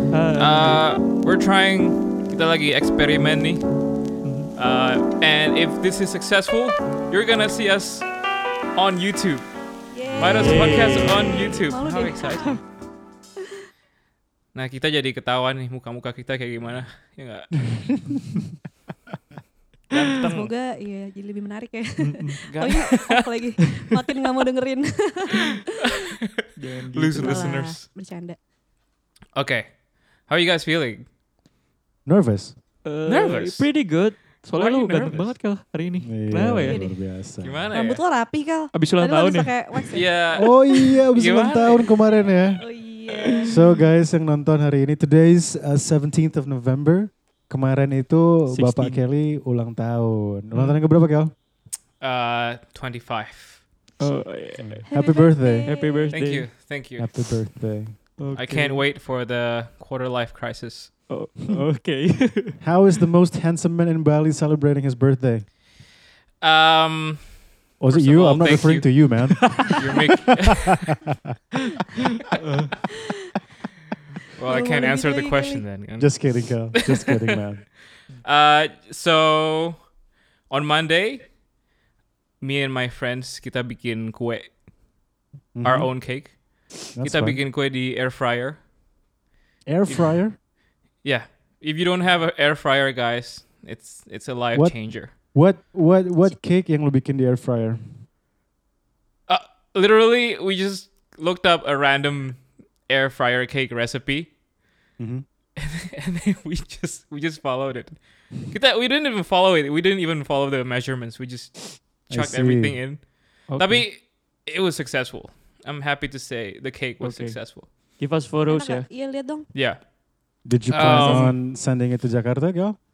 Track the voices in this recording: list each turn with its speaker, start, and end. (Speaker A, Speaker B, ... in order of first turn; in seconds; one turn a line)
Speaker A: 0.1-0.8
Speaker B: 0.3-3.7
Speaker A: 4.2-4.5
Speaker B: 4.5-8.1
Speaker B: 8.7-12.6
Speaker C: 9.9-12.6
Speaker D: 10.1-11.1
Speaker A: 10.3-11.4
Speaker B: 14.5-17.6
Speaker D: 17.7-18.2
Speaker B: 19.9-20.5
Speaker C: 20.3-26.0
Speaker A: 22.0-22.4
Speaker B: 22.4-23.3
Speaker A: 26.6-27.6
Speaker B: 26.9-27.8
Speaker C: 27.2-28.4
Speaker B: 29.3-31.1
Speaker D: 32.0-32.6
Speaker A: 32.8-36.9
Speaker B: 33.0-33.7
Speaker B: 34.5-35.4
Speaker D: 36.0-37.7
Speaker C: 36.7-37.0
Speaker B: 37.4-38.0
Speaker C: 37.7-40.4
Speaker A: 38.7-39.9
Speaker B: 39.9-40.5
Speaker D: 40.3-42.6
Speaker B: 41.1-42.0
Speaker C: 42.6-43.5
Speaker A: 43.1-43.6
Speaker D: 43.5-51.3
Speaker A: 48.5-49.0
Speaker A: 50.5-50.8
Speaker B: 52.0-53.6
Speaker A: 54.0-54.8
Speaker D: 54.6-55.7
Speaker C: 54.9-56.2
Speaker A: 55.6-56.5
Speaker B: 56.1-57.2
Speaker D: 57.0-58.2
Speaker A: 58.2-58.9
Speaker B: 58.3-61.0
Speaker A: 61.1-62.6
Speaker D: 62.6-65.5
Speaker B: 66.4-69.1
Speaker D: 67.8-69.8
Speaker A: 69.4-69.7
Speaker B: 69.8-70.8
Speaker A: 72.3-72.7
Speaker B: 74.4-77.0
Speaker C: 74.4-75.6
Speaker D: 76.0-77.7
Speaker B: 78.2-79.9
Speaker B: 80.5-81.3
Speaker B: 82.4-84.6
Speaker D: 85.5-86.1
Speaker B: 85.6-88.6
Speaker D: 86.9-87.4
Speaker D: 89.7-90.3
Speaker B: 89.9-90.2
Speaker B: 91.0-95.1
Speaker D: 94.5-98.0
Speaker B: 99.3-104.3
Speaker D: 105.0-105.2
Speaker B: 105.5-117.7
Speaker D: 112.1-112.9
Speaker A: 113.5-113.8
Speaker A: 117.0-118.9
Speaker C: 118.5-119.5
Speaker B: 119.5-119.9
Speaker D: 120.4-122.8
Speaker B: 120.7-121.4